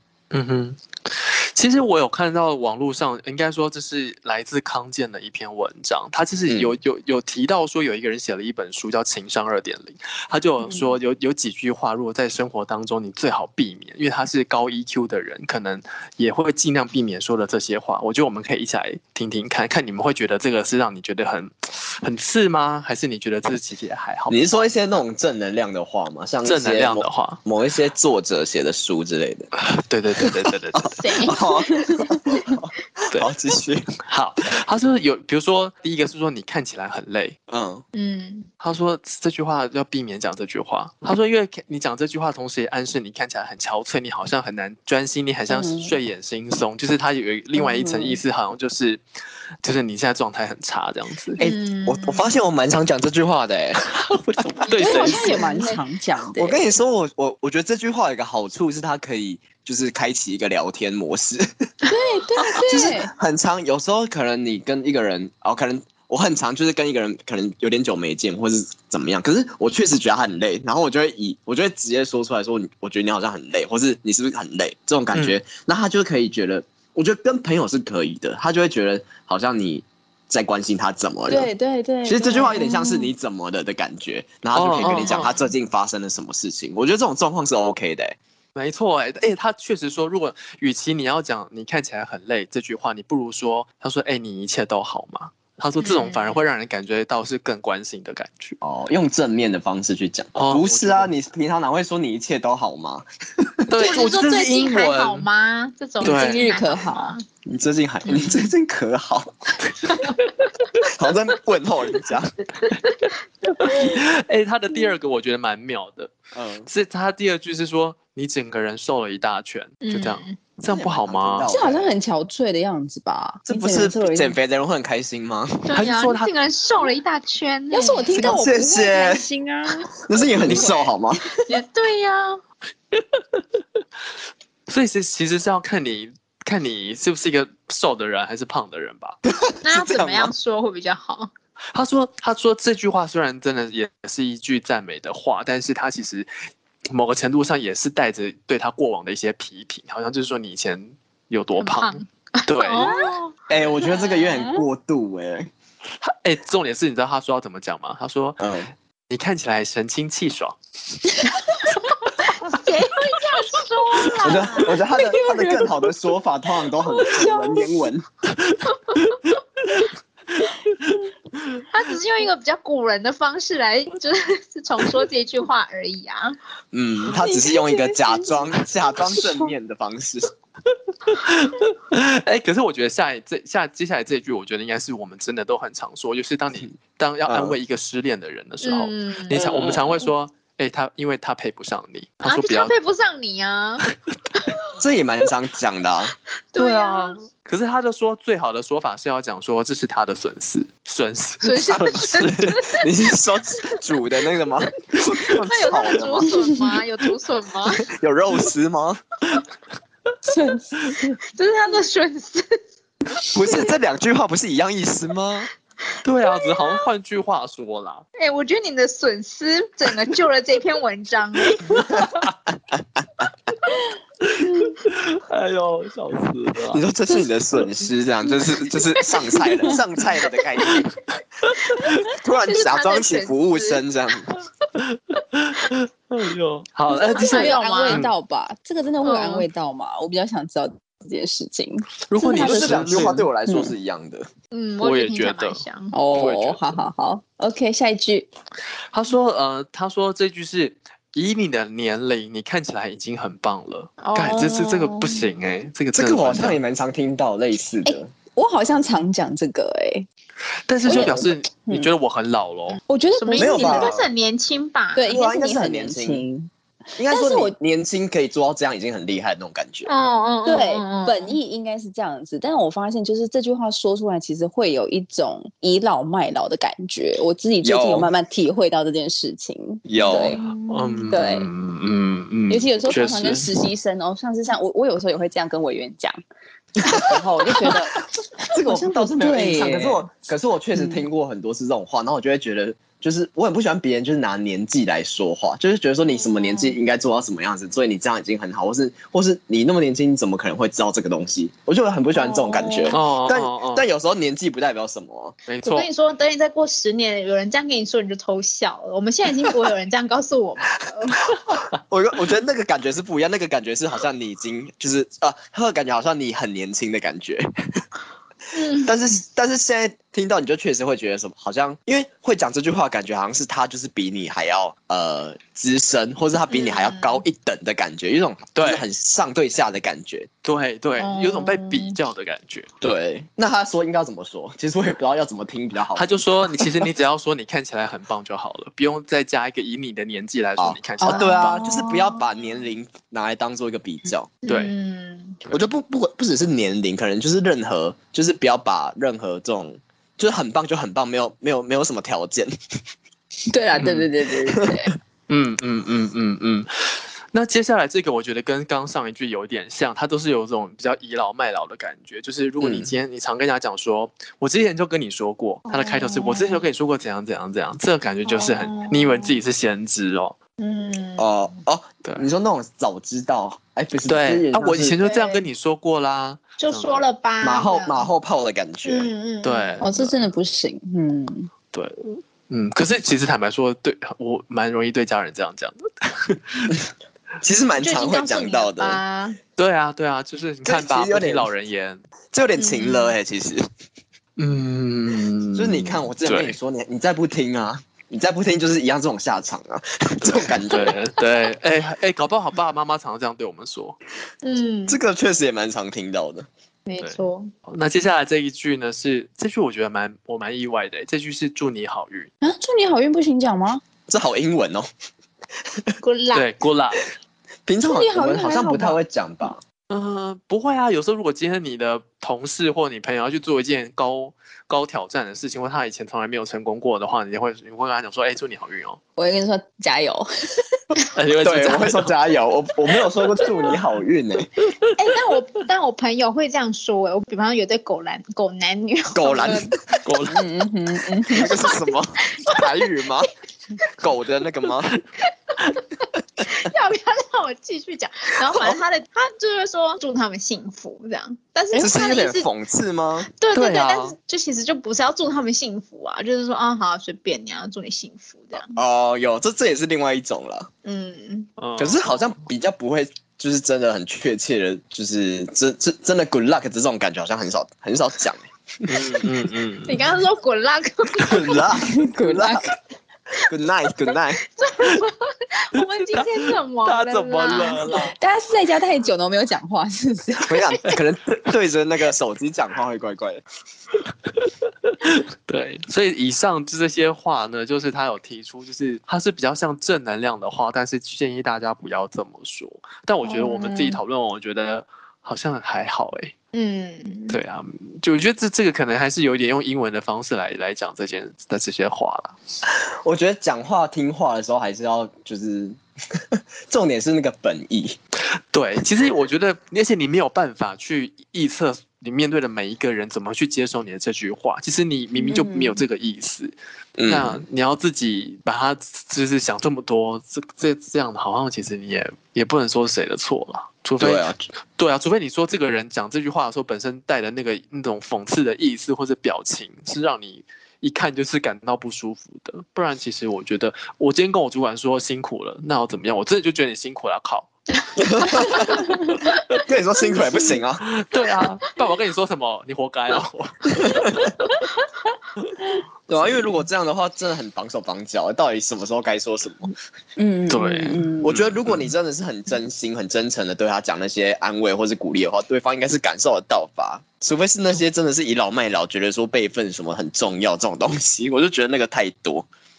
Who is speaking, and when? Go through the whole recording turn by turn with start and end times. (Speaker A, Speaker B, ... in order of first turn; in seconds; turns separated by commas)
Speaker A: 0.3-24.6, Speaker B: 6.5-6.7, Speaker B: 24.3-29.5, Speaker A: 26.4-27.4, Speaker A: 29.6-31.0, Speaker B: 30.2-33.9, Speaker C: 31.0-31.4, Speaker D: 31.4-32.1, Speaker A: 34.0-37.4, Speaker B: 37.5-37.8, Speaker C: 37.9-38.5, Speaker A: 38.6-49.0, Speaker D: 45.5-45.9, Speaker D: 47.5-48.2, Speaker A: 49.6-51.4, Speaker B: 51.4-53.8, Speaker C: 51.4-52.2, Speaker A: 54.0-55.5, Speaker C: 54.6-55.8, Speaker D: 54.8-56.6, Speaker B: 56.4-61.7, Speaker D: 61.9-63.1, Speaker B: 62.5-81.5, Speaker A: 75.1-75.4, Speaker D: 81.3-83.1, Speaker B: 82.0-88.2, Speaker A: 84.5-85.4, Speaker A: 88.5-98.6, Speaker C: 95.8-96.4, Speaker B: 98.6-103.9, Speaker A: 100.3-101.1, Speaker A: 103.7-105.2, Speaker C: 103.8-107.2, Speaker A: 106.0-106.5, Speaker D: 106.0-107.2, Speaker B: 107.4-109.3, Speaker C: 108.0-108.4, Speaker C: 109.9-110.1, Speaker B: 110.8-112.3, Speaker C: 112.6-113.0, Speaker A: 113.6-116.1, Speaker B: 116.3-116.7, Speaker A: 116.7-121.5, Speaker C: 119.8-120.4, Speaker B: 120.7-121.9, Speaker D: 121.5-124.3, Speaker B: 123.5-125.8, Speaker C: 125.7-128.4, Speaker A: 125.7-126.3, Speaker D: 127.7-130.0, Speaker B: 128.1-129.2, Speaker B: 130.0-131.2, Speaker C: 130.4-130.9, Speaker C: 131.5-132.4, Speaker A: 132.9-133.4, Speaker A: 134.7-139.2, Speaker B: 139.2-140.3, Speaker C: 139.6-141.3, Speaker A: 141.7-146.3, Speaker A: 146.9-152.9, Speaker C: 151.6-154.3, Speaker D: 152.8-153.1, Speaker B: 153.5-155.5, Speaker D: 153.8-154.6, Speaker A: 156.0-158.5, Speaker B: 158.4-158.7, Speaker A: 159.1-160.6, Speaker C: 162.4-164.8, Speaker B: 164.2-168.1, Speaker D: 164.9-165.9, Speaker D: 166.7-167.7, Speaker A: 168.5-169.1, Speaker C: 171.7-176.3, Speaker B: 176.7-180.3, Speaker D: 177.1-179.4, Speaker A: 181.0-192.7, Speaker B: 187.3-187.6, Speaker C: 188.6-189.7, Speaker B: 189.3-189.7, Speaker C: 192.2-194.6, Speaker B: 194.8-196.1, Speaker C: 196.5-197.2, Speaker A: 196.6-202.6, Speaker C: 201.4-202.8, Speaker B: 202.4-206.3, Speaker C: 205.2-207.8, Speaker B: 207.7-209.0, Speaker D: 210.2-211.2, Speaker C: 211.3-212.5, Speaker C: 213.1-213.7, Speaker B: 213.3-215.5, Speaker A: 216.0-218.0, Speaker C: 216.3-216.8, Speaker C: 218.2-222.2, Speaker A: 224.2-226.8, Speaker B: 226.7-230.9, Speaker A: 231.5-232.0, Speaker C: 231.7-233.8, Speaker B: 232.0-234.3, Speaker A: 234.8-238.1, Speaker C: 236.9-238.0, Speaker D: 236.9-243.7, Speaker C: 239.0-239.4, Speaker A: 242.1-243.3, Speaker B: 242.1-244.3, Speaker C: 244.5-245.9, Speaker A: 244.8-245.6, Speaker D: 245.9-248.3, Speaker A: 246.1-246.6, Speaker A: 248.9-256.6, Speaker C: 254.0-255.2, Speaker B: 255.9-258.1, Speaker D: 257.8-260.1, Speaker A: 260.7-262.8, Speaker D: 260.9-261.9, Speaker D: 262.8-264.0, Speaker C: 263.2-265.1, Speaker B: 263.3-264.1, Speaker D: 264.9-266.5, Speaker B: 265.1-266.2, Speaker B: 267.0-269.9, Speaker D: 267.0-267.5, Speaker C: 269.9-271.4, Speaker D: 270.4-280.4, Speaker B: 277.6-278.1, Speaker B: 279.9-280.4, Speaker C: 280.4-281.1, Speaker A: 280.5-283.6, Speaker D: 281.1-281.5, Speaker D: 282.5-286.2, Speaker B: 282.9-283.2, Speaker D: 286.8-290.1, Speaker B: 286.9-287.8, Speaker B: 288.5-305.4, Speaker D: 290.7-291.0, Speaker C: 296.1-296.8, Speaker C: 302.1-303.0, Speaker A: 302.9-303.9, Speaker A: 305.5-305.9, Speaker C: 305.6-311.5, Speaker B: 311.6-317.8, Speaker C: 318.5-318.9, Speaker B: 318.7-330.3, Speaker C: 326.5-327.2, Speaker A: 328.6-328.8, Speaker A: 330.4-332.7, Speaker C: 331.0-331.9, Speaker B: 332.8-336.9, Speaker A: 335.9-341.6, Speaker B: 340.6-344.3, Speaker D: 341.0-341.6, Speaker C: 341.6-341.9, Speaker C: 344.4-345.4, Speaker A: 344.5-344.7, Speaker B: 345.5-352.5, Speaker D: 353.5-354.9, Speaker A: 353.8-354.1, Speaker A: 355.3-370.4, Speaker B: 362.6-362.9, Speaker C: 365.7-366.6, Speaker C: 368.2-369.3, Speaker C: 370.6-371.3, Speaker B: 371.2-375.0, Speaker A: 374.1-377.1, Speaker C: 375.0-375.4, Speaker C: 376.6-378.1, Speaker B: 377.4-379.1, Speaker C: 378.8-379.9, Speaker A: 379.4-380.1, Speaker D: 379.8-381.5, Speaker A: 381.7-386.8, Speaker B: 387.4-389.0, Speaker C: 387.8-389.4, Speaker A: 389.6-392.0, Speaker B: 390.6-391.5, Speaker B: 392.3-393.6, Speaker C: 392.6-393.2, Speaker A: 394.4-396.6, Speaker B: 395.5-401.0, Speaker A: 400.7-403.9, Speaker C: 404.4-405.0, Speaker B: 404.9-406.5, Speaker C: 406.9-407.5, Speaker A: 407.0-412.3, Speaker D: 412.4-413.8, Speaker B: 414.1-414.9, Speaker C: 416.0-416.5, Speaker A: 416.3-417.1, Speaker B: 417.6-419.6, Speaker D: 417.8-419.0, Speaker A: 419.9-429.0, Speaker D: 429.2-430.6, Speaker A: 431.1-432.1, Speaker B: 431.4-434.5, Speaker A: 434.6-434.9, Speaker C: 434.9-439.8, Speaker B: 439.1-439.7, Speaker A: 440.0-440.4, Speaker D: 440.3-441.5, Speaker B: 441.3-443.3, Speaker C: 441.4-443.2, Speaker B: 444.0-444.9, Speaker C: 445.5-445.8, Speaker C: 446.4-452.5, Speaker B: 448.4-448.8, Speaker B: 451.7-453.3, Speaker C: 453.3-458.7, Speaker A: 453.5-454.1, Speaker B: 458.7-460.7, Speaker C: 460.8-461.5, Speaker A: 461.6-462.0, Speaker B: 461.8-469.2, Speaker A: 468.8-470.1, Speaker C: 469.9-471.7, Speaker B: 471.2-472.7, Speaker D: 471.8-472.7, Speaker B: 473.4-474.4, Speaker C: 474.6-478.1, Speaker A: 475.8-478.1, Speaker D: 477.9-480.6, Speaker B: 480.4-483.4, Speaker A: 484.8-496.3, Speaker C: 493.2-494.0, Speaker C: 496.5-497.4, Speaker A: 497.3-502.4, Speaker B: 502.7-508.0, Speaker A: 508.5-516.5, Speaker D: 515.1-515.8, Speaker B: 517.0-517.4, Speaker A: 517.1-537.5, Speaker B: 524.0-524.4, Speaker B: 538.0-538.9, Speaker C: 538.4-538.8, Speaker B: 539.5-540.8, Speaker A: 540.8-544.3, Speaker B: 543.8-544.3, Speaker B: 546.1-549.7, Speaker D: 550.2-551.4, Speaker A: 550.5-551.9, Speaker B: 551.2-562.5